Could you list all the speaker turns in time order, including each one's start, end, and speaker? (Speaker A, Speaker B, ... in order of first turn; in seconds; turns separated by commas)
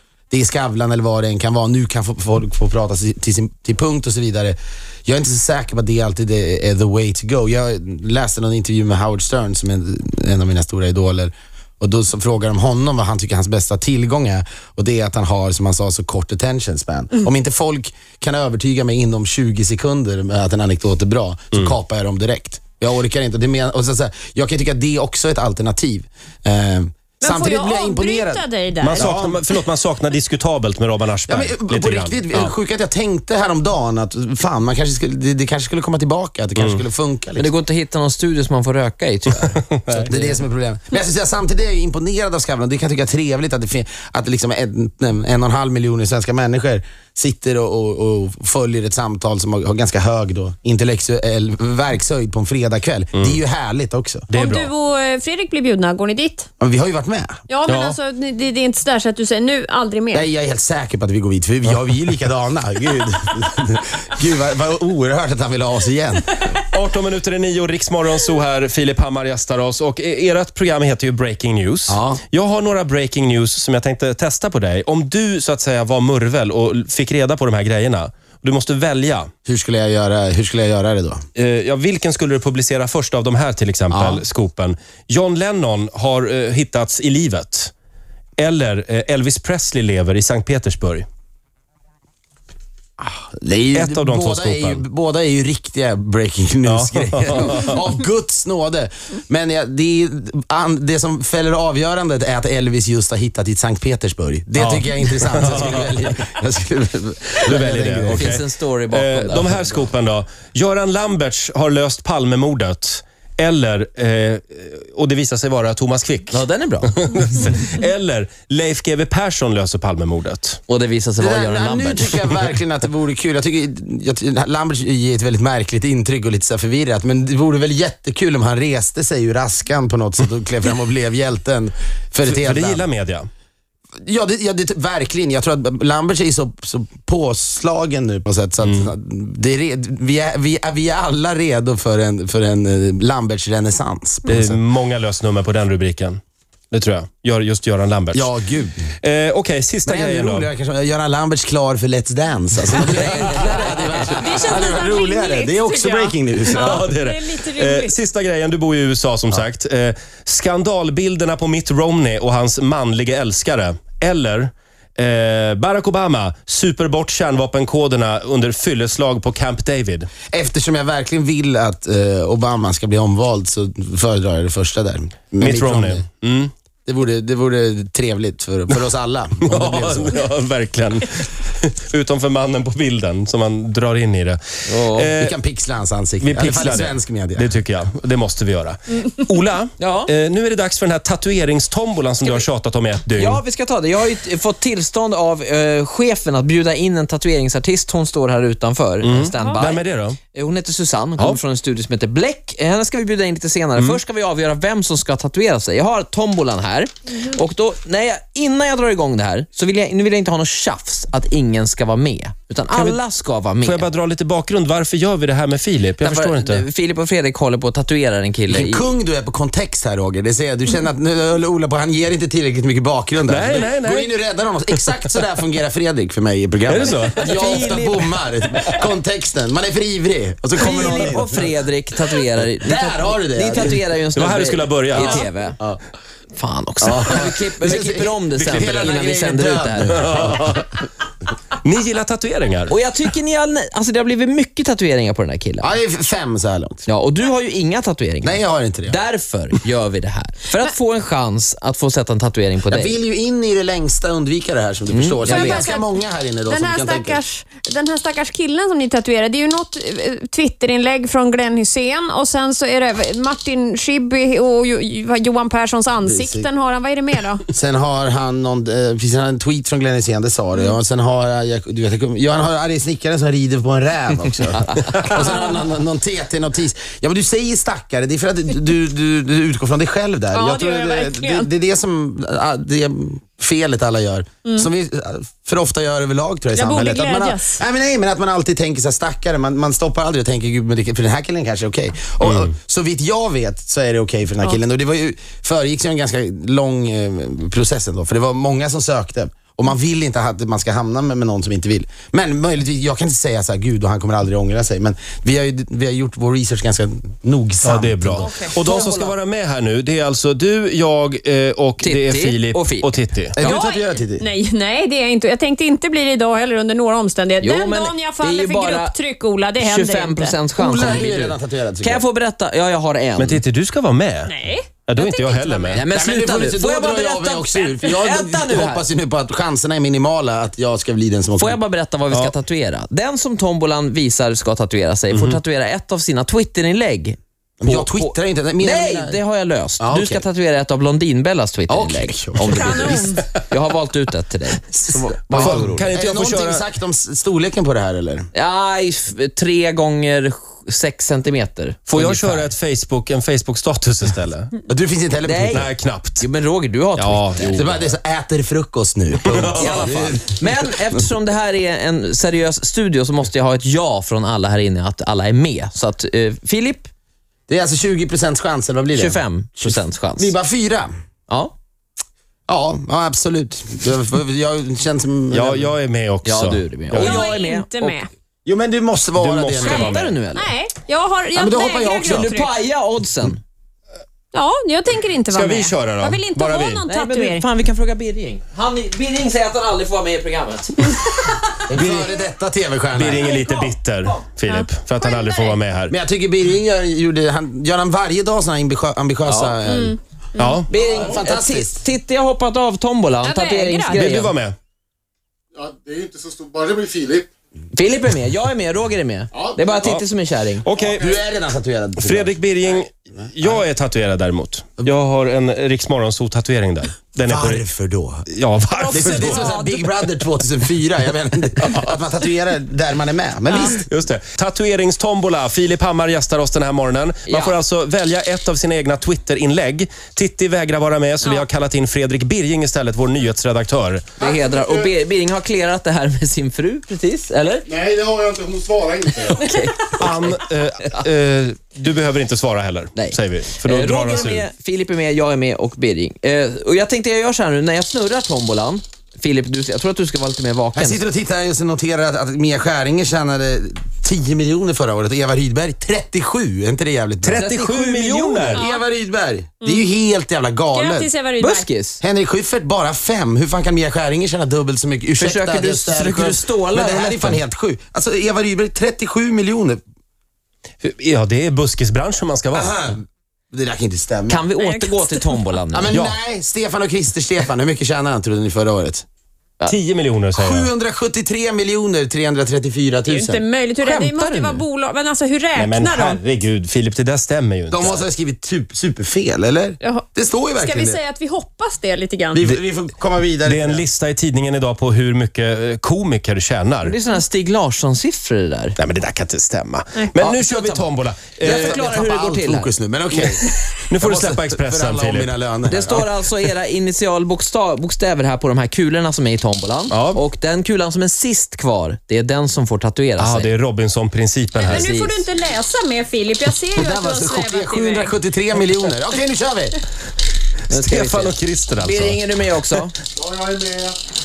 Speaker A: 0.3-29.4, Speaker B: 27.2-29.1, Speaker C: 28.8-32.5, Speaker A: 31.3-37.5, Speaker D: 37.4-40.4, Speaker A: 39.9-54.3, Speaker C: 54.3-54.7, Speaker B: 54.3-56.5, Speaker A: 56.6-57.3, Speaker B: 57.5-60.3, Speaker C: 57.7-58.0, Speaker A: 60.1-66.3, Speaker C: 66.6-79.3, Speaker A: 71.9-72.2, Speaker A: 79.5-81.2, Speaker C: 81.3-87.7, Speaker A: 83.9-84.2, Speaker C: 88.4-91.0, Speaker A: 93.0-108.3, Speaker C: 93.7-94.8, Speaker C: 96.7-97.8, Speaker C: 104.6-105.9, Speaker C: 107.4-120.6, Speaker D: 108.1-109.7, Speaker D: 116.3-116.9, Speaker D: 120.7-122.3, Speaker A: 121.2-132.9, Speaker C: 132.2-133.3, Speaker A: 134.0-144.6, Speaker C: 138.6-138.9, Speaker C: 144.3-146.2, Speaker C: 146.7-148.3, Speaker A: 148.1-148.9, Speaker C: 149.0-150.5, Speaker A: 149.8-156.9, Speaker B: 154.2-157.9, Speaker C: 156.5-170.1, Speaker A: 170.3-176.0, Speaker C: 175.4-176.5, Speaker A: 176.8-180.2, Speaker C: 179.4-185.3, Speaker D: 184.7-185.1, Speaker A: 185.2-187.6, Speaker C: 186.2-193.4, Speaker D: 189.8-190.1, Speaker D: 192.2-192.4, Speaker D: 193.2-213.9, Speaker C: 199.0-200.2, Speaker C: 212.7-213.0, Speaker C: 213.6-216.6, Speaker D: 216.0-218.9, Speaker A: 218.5-231.4, Speaker C: 223.2-224.1, Speaker C: 226.7-227.7, Speaker D: 227.2-228.8, Speaker D: 230.6-235.6, Speaker A: 232.6-233.8, Speaker C: 233.7-235.2, Speaker D: 236.3-240.1, Speaker A: 236.8-240.5, Speaker C: 238.3-238.8, Speaker C: 239.9-240.8, Speaker C: 241.6-242.8, Speaker D: 242.7-245.7, Speaker A: 245.6-246.9, Speaker D: 246.9-253.0, Speaker A: 248.2-249.0, Speaker A: 252.7-257.2, Speaker D: 254.9-255.7, Speaker B: 255.2-267.4, Speaker A: 266.0-266.5, Speaker A: 267.5-308.3, Speaker D: 274.6-275.0, Speaker B: 280.3-281.5, Speaker B: 286.5-287.6, Speaker C: 292.2-292.5, Speaker C: 307.6-313.4, Speaker D: 308.2-309.1, Speaker D: 311.8-312.9, Speaker A: 313.4-314.3, Speaker B: 313.4-320.4, Speaker D: 317.4-318.9, Speaker D: 319.6-323.4, Speaker A: 320.6-322.0, Speaker C: 323.2-325.8, Speaker B: 324.2-325.8, Speaker D: 325.7-328.8, Speaker A: 325.9-331.6, Speaker D: 331.4-344.6, Speaker A: 337.6-339.2, Speaker A: 339.8-340.2, Speaker A: 341.7-343.2, Speaker B: 342.5-343.2, Speaker A: 344.7-348.3, Speaker D: 345.2-345.8, Speaker C: 345.3-346.6, Speaker D: 348.3-352.5, Speaker C: 351.9-354.5, Speaker A: 354.7-355.7, Speaker D: 355.2-357.6, Speaker C: 355.5-356.2, Speaker C: 356.9-357.9, Speaker A: 357.4-360.4, Speaker C: 359.3-359.8, Speaker D: 359.5-366.9, Speaker A: 367.5-370.9, Speaker D: 368.9-370.3, Speaker D: 371.3-371.5, Speaker A: 372.5-375.7, Speaker C: 375.3-377.2, Speaker D: 376.2-378.0, Speaker B: 376.9-378.1, Speaker A: 378.4-380.0, Speaker C: 379.1-380.1, Speaker D: 379.6-380.5, Speaker B: 380.3-382.5, Speaker A: 381.3-382.3, Speaker D: 382.0-383.4, Speaker B: 384.3-387.5, Speaker C: 385.3-386.8, Speaker D: 386.9-391.2, Speaker D: 391.7-392.2, Speaker A: 391.7-393.3, Speaker C: 392.9-395.9, Speaker D: 393.2-394.2, Speaker B: 394.4-395.6, Speaker A: 395.9-400.0, Speaker D: 399.2-399.7, Speaker B: 399.7-400.6, Speaker C: 400.4-400.7, Speaker D: 400.7-404.3, Speaker A: 400.7-401.8, Speaker B: 403.2-404.0, Speaker C: 403.9-404.5, Speaker E: 405.6-407.3, Speaker D: 407.7-410.6, Speaker C: 410.6-411.1, Speaker A: 410.8-412.4, Speaker C: 412.0-417.6, Speaker A: 417.2-418.3, Speaker C: 418.3-419.4, Speaker B: 418.7-419.8, Speaker A: 418.9-423.8, Speaker C: 421.6-421.9, Speaker C: 423.6-434.1, Speaker D: 427.2-427.6, Speaker D: 434.2-437.7, Speaker E: 434.5-434.9, Speaker E: 437.7-439.4, Speaker D: 439.2-440.4, Speaker C: 440.0-444.4, Speaker D: 442.9-451.0, Speaker A: 450.7-457.4, Speaker C: 457.2-458.6, Speaker D: 457.3-458.5, Speaker A: 458.4-461.1, Speaker B: 458.6-458.8, Speaker B: 460.7-461.7, Speaker D: 461.4-462.0, Speaker A: 462.0-469.8, Speaker D: 465.2-467.4, Speaker C: 470.8-472.7, Speaker A: 472.5-472.9, Speaker A: 473.5-474.4, Speaker D: 474.3-475.9, Speaker B: 474.6-475.4, Speaker A: 475.7-479.0, Speaker C: 475.9-476.2, Speaker C: 479.6-480.7, Speaker A: 480.4-483.4, Speaker B: 483.1-486.2, Speaker D: 483.8-484.6, Speaker C: 485.6-488.0, Speaker A: 487.7-491.0, Speaker B: 489.8-492.4, Speaker A: 492.3-493.8, Speaker C: 493.4-496.9, Speaker D: 496.8-498.8, Speaker C: 498.8-501.8, Speaker D: 500.2-502.7, Speaker A: 501.4-503.4, Speaker C: 503.9-505.4, Speaker A: 503.9-506.1, Speaker D: 505.6-513.5, Speaker C: 509.9-510.2, Speaker C: 513.2-514.9, Speaker B: 514.6-518.1, Speaker D: 514.6-515.3, Speaker A: 516.8-519.8, Speaker D: 520.7-522.9, Speaker C: 520.7-522.2, Speaker E: 523.2-524.0